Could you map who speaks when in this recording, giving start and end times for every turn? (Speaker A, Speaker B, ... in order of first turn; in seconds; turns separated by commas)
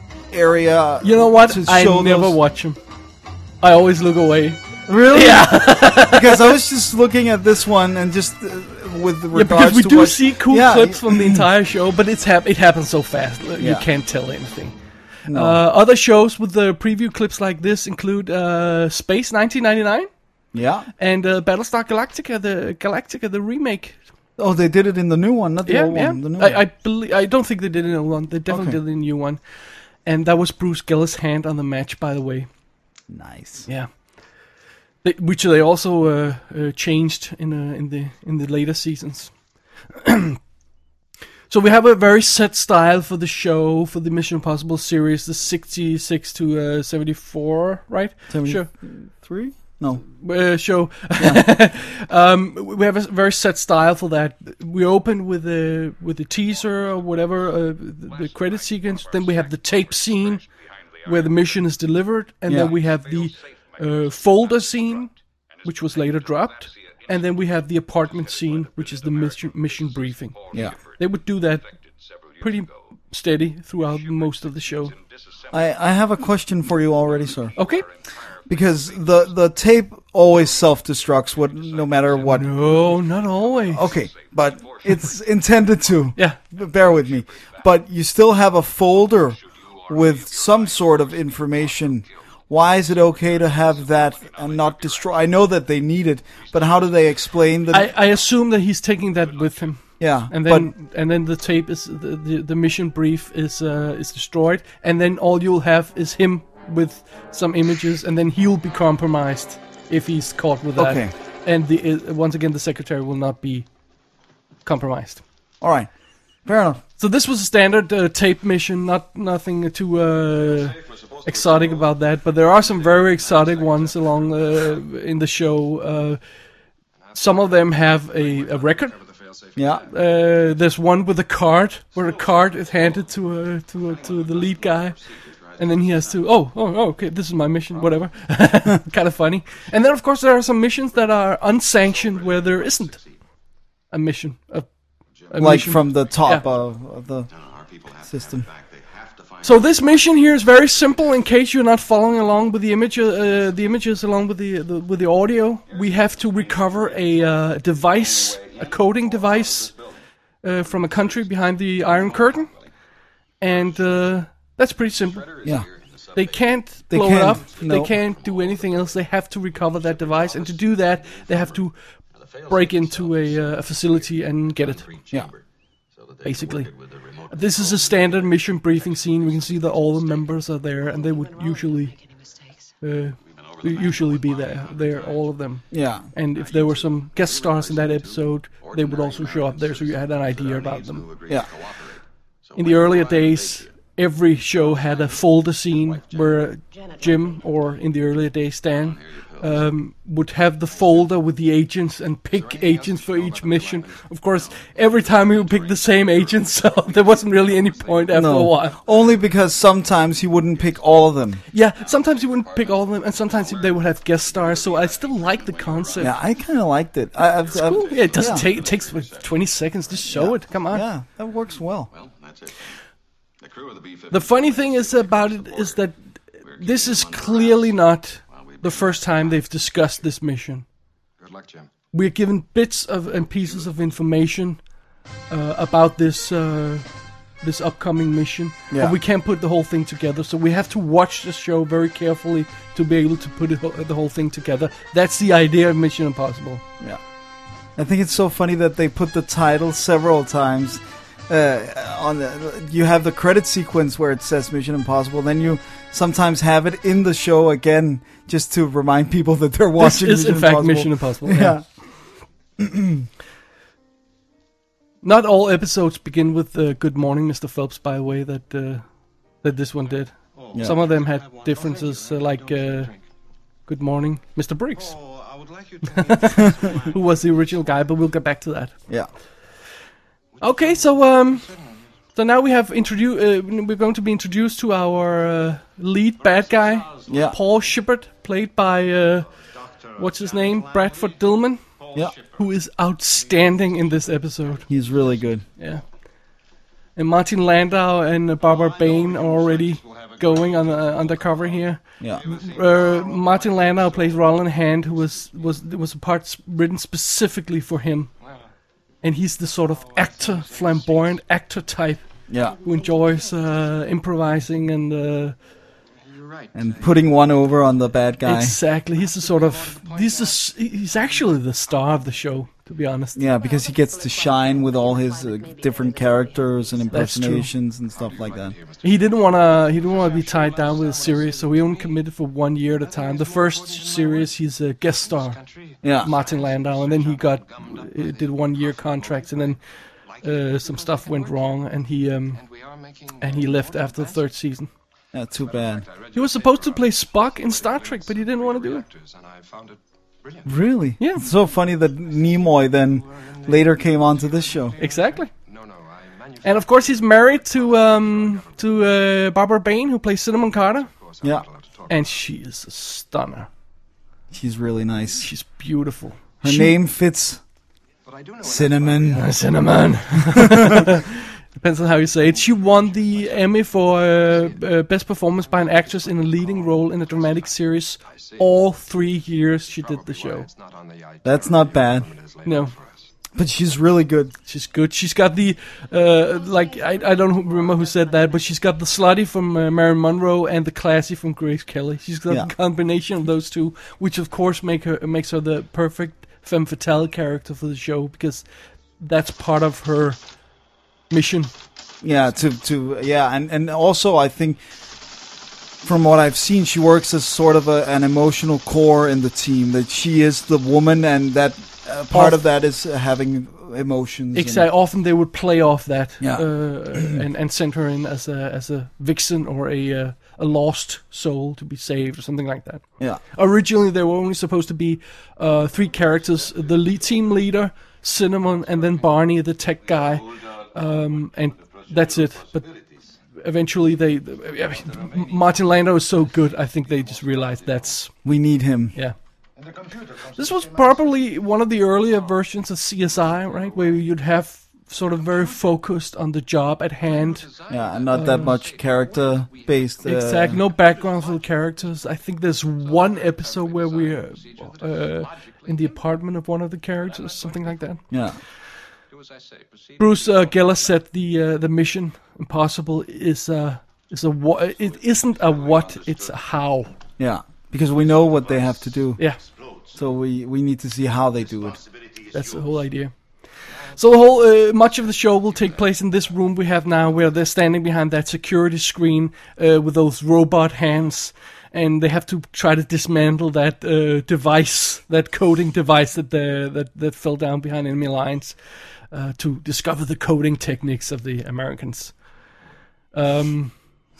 Speaker A: 0.3-2.3, Speaker B: 1.0-2.8, Speaker B: 3.6-6.6, Speaker A: 4.9-11.5, Speaker B: 9.3-14.7, Speaker A: 13.6-13.9, Speaker A: 15.3-15.6, Speaker B: 15.3-20.1, Speaker A: 20.5-20.9, Speaker B: 21.0-24.0, Speaker A: 24.4-26.6, Speaker B: 25.7-29.4, Speaker A: 28.5-28.8, Speaker B: 30.1-32.5, Speaker A: 33.1-33.6, Speaker B: 35.0-39.3, Speaker B: 40.0-40.4, Speaker B: 41.5-48.7, Speaker A: 48.3-50.0, Speaker B: 50.2-60.5, Speaker C: 58.2-60.4, Speaker B: 61.0-65.1, Speaker A: 62.5-62.7, Speaker B: 65.6-71.7, Speaker C: 68.5-70.8, Speaker B: 72.4-74.9, Speaker C: 74.3-75.6, Speaker A: 75.5-77.5, Speaker C: 77.5-77.8, Speaker B: 77.5-77.8, Speaker A: 78.5-82.5, Speaker C: 78.5-78.8, Speaker C: 81.7-84.8, Speaker B: 82.3-83.8, Speaker A: 83.7-97.9, Speaker C: 89.7-92.1, Speaker C: 93.1-95.1, Speaker B: 97.7-113.7, Speaker A: 100.0-100.7, Speaker A: 110.8-111.1, Speaker B: 114.6-115.2, Speaker A: 115.6-115.9, Speaker A: 116.5-116.8, Speaker B: 117.0-126.2, Speaker C: 120.5-121.9, Speaker C: 122.5-124.8, Speaker C: 127.1-130.2, Speaker B: 127.1-128.9, Speaker A: 129.6-129.8, Speaker B: 129.8-135.0, Speaker C: 132.0-133.1, Speaker C: 133.9-136.1, Speaker B: 135.6-143.0, Speaker C: 141.8-143.2, Speaker B: 143.9-144.7, Speaker B: 145.3-146.4, Speaker A: 145.3-147.3, Speaker C: 147.3-151.0, Speaker A: 148.1-148.5, Speaker B: 149.4-159.7, Speaker C: 155.7-157.4, Speaker C: 158.0-160.0, Speaker B: 160.4-162.5, Speaker C: 160.7-161.2, Speaker C: 161.8-162.7, Speaker B: 163.4-165.5, Speaker C: 163.5-164.0, Speaker C: 165.0-166.4, Speaker B: 166.1-171.8, Speaker A: 166.9-167.9, Speaker C: 167.6-169.0, Speaker C: 169.7-175.4, Speaker B: 172.4-174.9, Speaker C: 175.9-179.7, Speaker B: 176.2-176.7, Speaker B: 177.3-181.9, Speaker D: 179.8-182.8, Speaker B: 182.8-191.2, Speaker C: 183.3-185.3, Speaker A: 185.7-186.1, Speaker C: 186.3-193.7, Speaker B: 192.6-208.8, Speaker C: 194.5-196.4, Speaker D: 196.7-197.8, Speaker C: 198.8-199.6, Speaker C: 202.3-209.6, Speaker A: 208.1-211.4, Speaker C: 210.4-210.9, Speaker B: 211.5-216.2, Speaker C: 211.5-216.2, Speaker A: 216.0-218.5, Speaker C: 217.3-220.1, Speaker B: 217.5-220.8, Speaker A: 220.1-221.9, Speaker C: 221.9-222.6, Speaker C: 223.4-225.8, Speaker B: 224.1-230.6, Speaker C: 226.4-227.7, Speaker C: 228.4-229.2, Speaker C: 231.2-231.7, Speaker B: 231.9-234.6, Speaker B: 235.3-236.8, Speaker B: 237.4-246.6, Speaker A: 238.7-239.0, Speaker A: 247.8-261.6, Speaker B: 259.8-261.6, Speaker A: 262.6-263.1, Speaker B: 265.0-268.8, Speaker B: 269.4-272.9, Speaker C: 270.4-273.0, Speaker B: 273.7-275.0, Speaker C: 274.8-277.7, Speaker B: 275.8-278.7, Speaker C: 280.4-281.0, Speaker B: 280.4-281.5, Speaker B: 282.1-289.3, Speaker C: 286.2-287.4, Speaker A: 287.1-287.4, Speaker C: 289.5-291.2, Speaker B: 289.9-291.6, Speaker C: 291.8-292.4, Speaker B: 292.3-294.7, Speaker C: 293.4-294.8, Speaker A: 294.7-295.4, Speaker B: 295.6-295.8, Speaker B: 296.9-308.1, Speaker C: 298.4-304.3, Speaker A: 302.0-302.2, Speaker B: 309.0-312.1, Speaker C: 310.0-310.9, Speaker A: 312.3-312.6, Speaker B: 312.6-315.3, Speaker C: 316.0-317.1, Speaker A: 316.5-318.6, Speaker B: 318.2-323.2, Speaker C: 319.1-320.5, Speaker A: 323.1-328.6, Speaker D: 323.3-327.1, Speaker B: 326.9-327.5, Speaker C: 327.9-331.9, Speaker B: 328.8-335.4, Speaker C: 332.9-334.3, Speaker C: 335.4-339.6, Speaker A: 335.8-336.1, Speaker B: 336.0-339.6, Speaker B: 340.2-342.4, Speaker C: 340.2-341.5, Speaker C: 342.4-344.1, Speaker B: 343.2-344.7, Speaker A: 345.1-345.9, Speaker C: 345.4-350.4, Speaker B: 346.1-348.9, Speaker A: 350.4-354.8, Speaker B: 351.0-351.2, Speaker C: 353.1-358.6, Speaker B: 354.8-355.3, Speaker B: 356.4-360.9, Speaker C: 361.0-362.0, Speaker B: 361.9-363.5, Speaker A: 364.3-365.3, Speaker B: 365.2-366.7, Speaker A: 366.4-367.4, Speaker C: 368.1-369.9, Speaker A: 368.4-369.2, Speaker B: 369.1-380.5, Speaker A: 370.3-370.8, Speaker C: 372.2-374.6, Speaker C: 375.6-377.5, Speaker C: 378.2-378.5, Speaker C: 379.8-383.1, Speaker A: 381.2-382.1, Speaker B: 382.4-382.7, Speaker A: 383.4-384.3, Speaker B: 384.5-398.4, Speaker D: 386.2-388.8, Speaker B: 399.0-400.2, Speaker B: 401.1-401.5, Speaker A: 402.0-404.6, Speaker A: 405.8-414.6, Speaker B: 412.1-412.4, Speaker B: 414.3-432.7, Speaker A: 416.2-417.2, Speaker C: 429.9-431.0, Speaker C: 431.5-433.1, Speaker B: 433.4-438.1, Speaker C: 434.7-435.4, Speaker C: 437.0-437.9, Speaker A: 438.2-438.9, Speaker C: 439.6-441.1, Speaker B: 440.3-447.5, Speaker C: 443.6-443.9, Speaker C: 447.1-451.5, Speaker A: 447.7-450.6, Speaker B: 448.1-448.5, Speaker B: 450.0-458.1, Speaker C: 452.9-455.8, Speaker C: 457.1-457.7, Speaker A: 458.1-458.4, Speaker C: 459.1-460.9, Speaker B: 460.0-466.9, Speaker C: 465.4-466.3, Speaker A: 467.2-469.2, Speaker C: 469.5-470.0, Speaker A: 469.9-471.8, Speaker C: 471.8-472.7, Speaker B: 472.3-473.1, Speaker B: 473.8-488.6, Speaker B: 489.1-492.1, Speaker B: 493.1-493.7